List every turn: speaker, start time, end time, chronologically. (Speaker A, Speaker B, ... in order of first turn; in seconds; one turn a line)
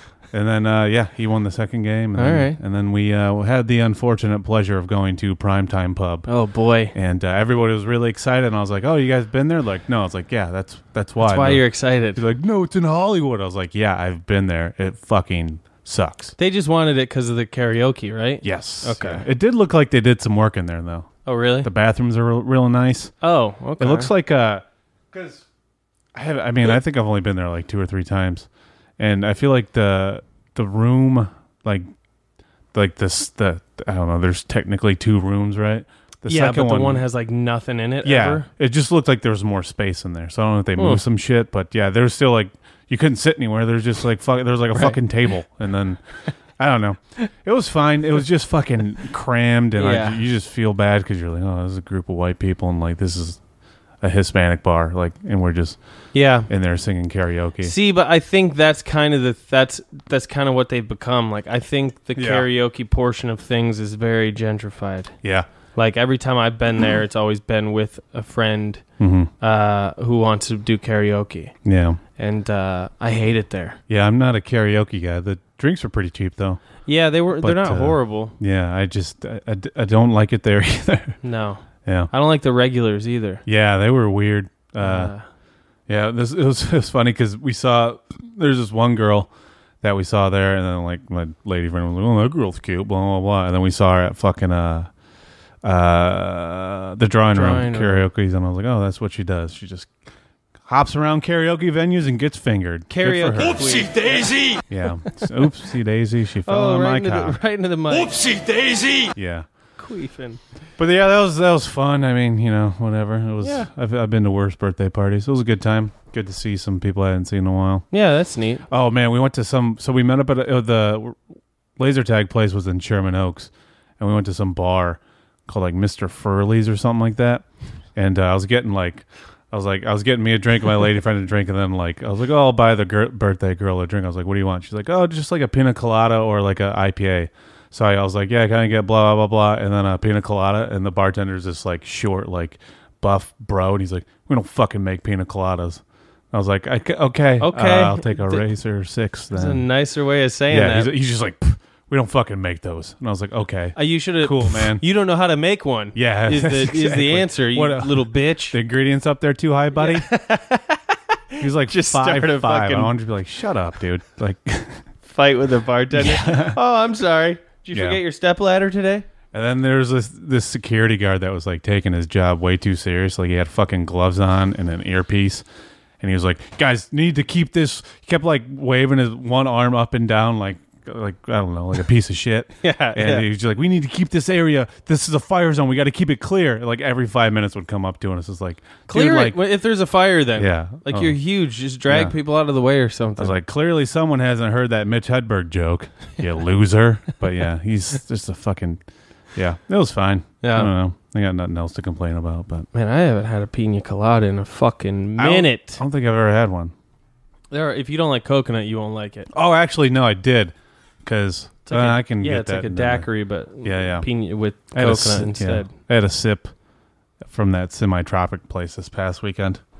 Speaker A: 0.3-6.3
Speaker B: 2.1-2.6
Speaker B: 6.2-6.9
Speaker A: 6.9-16.3
Speaker B: 11.2-12.2
Speaker B: 16.4-19.2
Speaker A: 18.4-23.1
Speaker B: 21.2-21.7
Speaker B: 23.2-24.1
Speaker A: 23.8-25.4
Speaker A: 26.1-31.9
Speaker A: 32.7-37.0
Speaker B: 36.3-38.5
Speaker A: 38.0-46.0
Speaker B: 40.8-41.0
Speaker A: 46.6-53.4
Speaker B: 49.8-50.2
Speaker A: 54.0-55.8
Speaker B: 56.1-56.5
Speaker A: 56.5-57.7
Speaker B: 57.6-65.1
Speaker A: 62.1-62.5
Speaker B: 65.7-68.8
Speaker A: 69.0-69.3
Speaker B: 69.4-71.5
Speaker A: 71.6-72.0
Speaker B: 72.2-73.8
Speaker A: 73.9-76.6
Speaker B: 76.8-78.3
Speaker A: 77.3-81.2
Speaker B: 81.2-83.4
Speaker A: 81.8-82.1
Speaker A: 83.5-85.1
Speaker B: 84.8-85.2
Speaker A: 85.9-89.3
Speaker A: 89.8-94.9
Speaker A: 95.6-99.9
Speaker B: 97.3-98.1
Speaker A: 100.6-103.9
Speaker B: 102.9-104.6
Speaker A: 104.6-107.4
Speaker B: 106.5-108.3
Speaker A: 109.1-109.5
Speaker B: 109.8-110.4
Speaker A: 110.8-117.9
Speaker B: 113.4-113.7
Speaker B: 117.9-118.6
Speaker A: 118.7-121.2
Speaker A: 121.8-149.6
Speaker B: 147.4-148.4
Speaker B: 149.3-150.9
Speaker A: 150.5-154.8
Speaker B: 153.8-158.5
Speaker A: 155.9-160.1
Speaker B: 159.8-162.9
Speaker A: 161.4-164.8
Speaker B: 165.1-169.1
Speaker A: 165.9-166.6
Speaker A: 167.7-168.0
Speaker A: 169.3-175.4
Speaker A: 176.0-189.4
Speaker B: 182.6-183.3
Speaker B: 188.9-193.4
Speaker A: 190.4-191.2
Speaker A: 191.9-192.1
Speaker A: 193.2-198.8
Speaker A: 199.3-202.7
Speaker B: 200.4-200.7
Speaker B: 202.7-205.8
Speaker A: 205.2-206.7
Speaker B: 207.5-209.3
Speaker A: 209.3-213.1
Speaker B: 211.6-215.7
Speaker A: 213.6-214.1
Speaker A: 214.7-216.5
Speaker A: 217.2-219.6